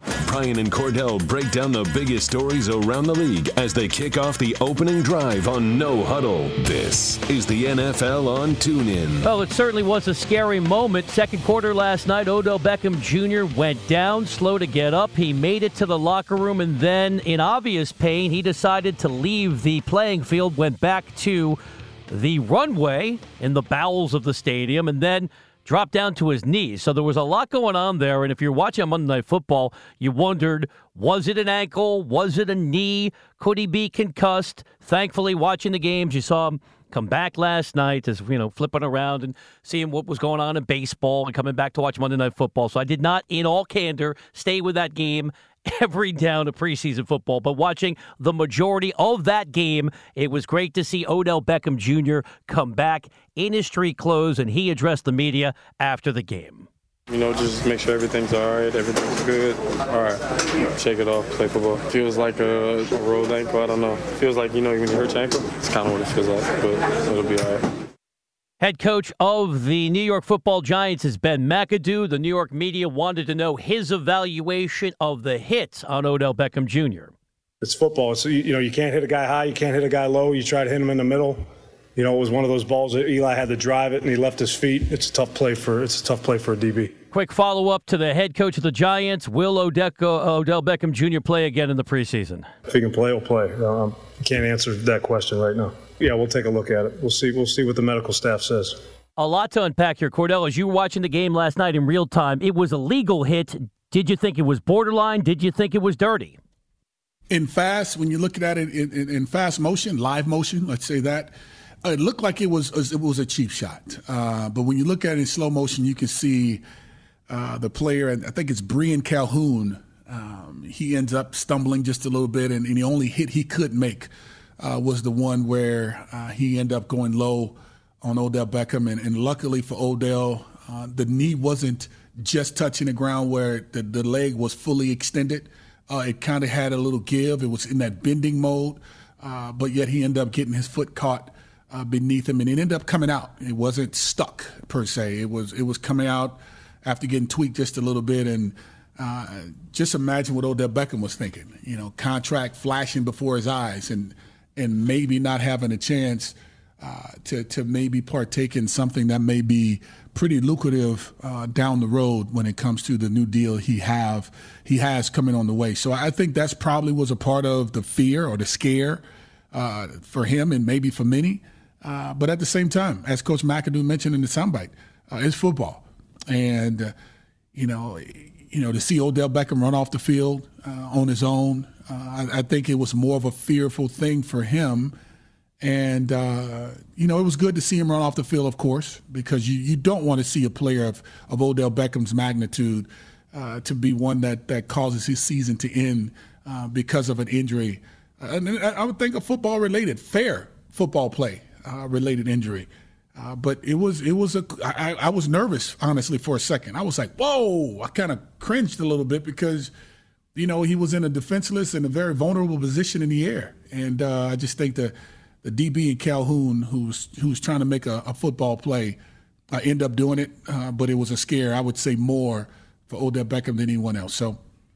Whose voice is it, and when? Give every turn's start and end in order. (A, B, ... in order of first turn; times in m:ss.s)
0:00.2-0:09.3 A
0:09.2-0:56.7 B
0:57.1-1:00.2 C
1:00.7-1:07.6 C
1:08.6-1:17.1 B
1:17.6-1:21.4 D
1:22.0-1:26.9 D
1:27.1-1:32.5 B
1:32.7-1:38.8 D
1:39.2-1:46.4 B
1:47.3-1:56.6 E
1:57.3-2:56.9 E
2:57.5-3:04.9 E
3:05.6-3:29.7 E
3:30.3-3:39.0 E
3:39.5-3:44.4 E